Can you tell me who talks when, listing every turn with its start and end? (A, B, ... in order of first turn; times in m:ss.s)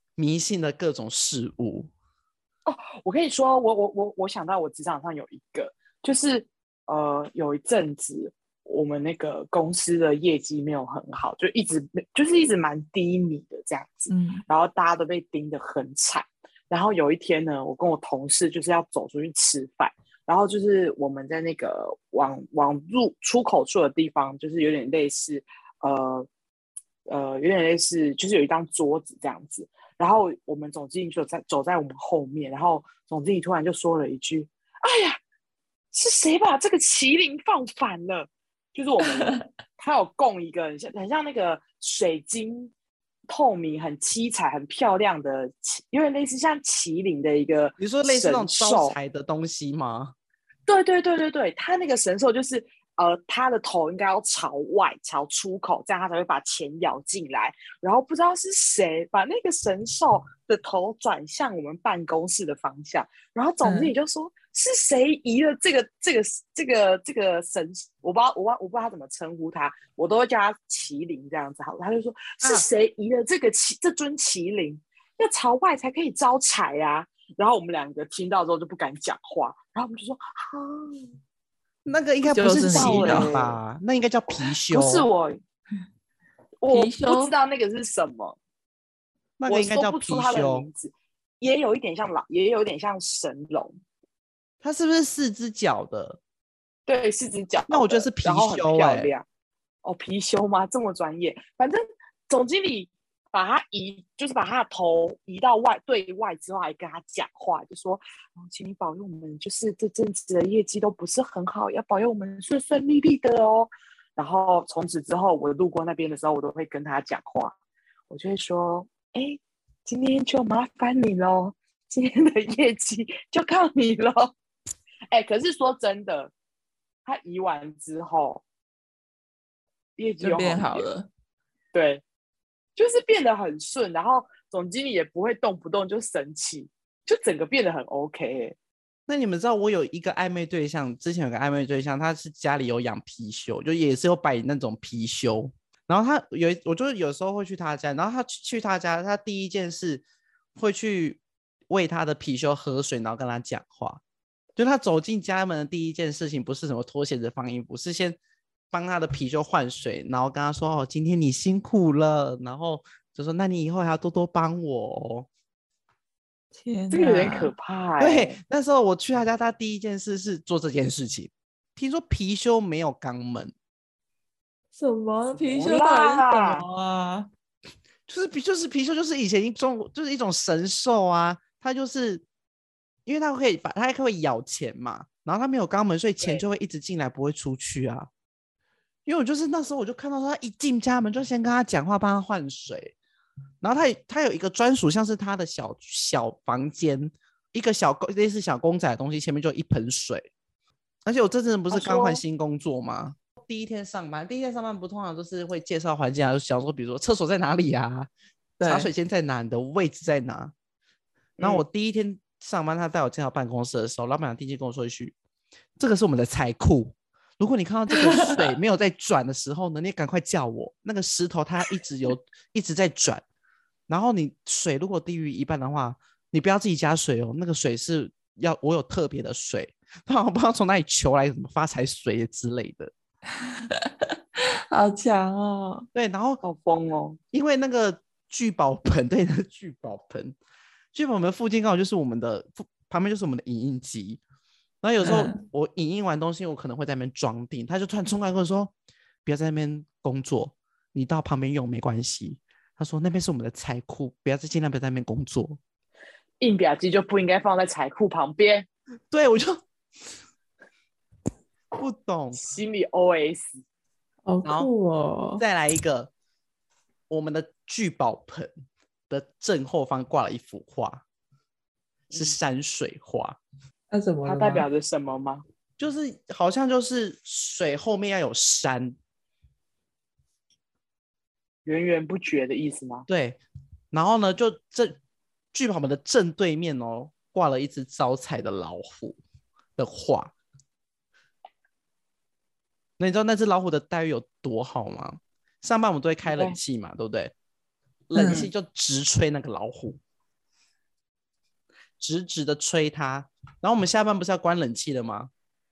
0:00.2-0:01.9 A
0:02.6-0:26.3 B
0:14.1-0:14.4 C
0:27.1-0:35.2 B
0:35.9-0:42.7 B
0:43.3-0:49.0 B
0:47.8-0:50.1 A
0:50.6-1:21.1 B
1:03.6-1:03.9 C
1:21.8-1:25.0 A
1:22.3-1:23.3 C
1:22.7-1:23.6 B
1:24.3-1:25.4 B
1:26.6-1:28.4 B
1:26.7-1:27.3 C
1:29.4-1:30.7 A
1:29.5-1:33.8 B
1:34.6-1:36.2 A
1:36.9-1:39.2 B
1:37.7-1:39.1 A
1:39.8-1:57.6 B
1:58.1-2:04.3 B
2:05.1-2:06.3 B
2:07.0-2:08.4 B
2:10.0-2:10.9 B
2:10.2-2:11.1 C
2:11.7-2:12.0 B
2:12.8-2:18.6 B
2:19.1-2:30.0 A
2:30.6-2:34.0 A
2:34.6-2:38.2 A
2:38.7-2:45.3 A
2:46.5-2:47.5 C
2:46.9-2:48.4 B
2:48.0-2:53.5 A
2:54.7-2:57.3 C
2:55.4-2:56.6 B
2:58.1-3:02.2 A
3:03.0-3:08.1 A
3:09.0-3:12.9 A
3:13.6-3:20.3 A
3:21.0-3:28.1 A
3:21.7-3:22.2 B
3:28.6-3:28.9 C
3:28.6-3:30.5 A
3:31.4-3:31.6 B
3:31.4-3:35.1 A
3:35.8-3:43.2 A
3:38.0-3:38.4 C
3:43.9-3:52.9 A
3:53.4-3:55.9 C
3:55.9-3:56.4 A
3:56.4-3:57.2 B
3:57.3-4:00.4 A
4:00.9-4:04.2 A
4:04.8-4:08.7 A
4:05.0-4:05.4 C
4:09.2-4:15.6 A
4:16.4-4:18.7 B
4:19.1-4:19.6 A
4:21.7-4:22.4 A
4:22.3-4:23.6 B
4:24.2-4:25.4 C
4:24.4-4:24.7 A
4:25.4-4:26.1 A
4:27.1-4:28.5 A
4:29.1-4:31.0 A
4:32.1-4:32.4 B
4:32.1-4:33.4 A
4:33.9-4:34.6 C
4:34.2-4:35.4 B
4:35.8-4:39.0 A
4:41.6-4:43.1 B
4:43.1-4:43.4 A
4:43.9-4:45.0 A
4:45.5-4:49.2 A
4:49.8-4:50.3 A
4:53.0-4:57.3 A
4:56.2-4:56.6 B
4:58.1-5:00.0 A
4:58.1-4:58.5 C
5:02.0-5:05.3 A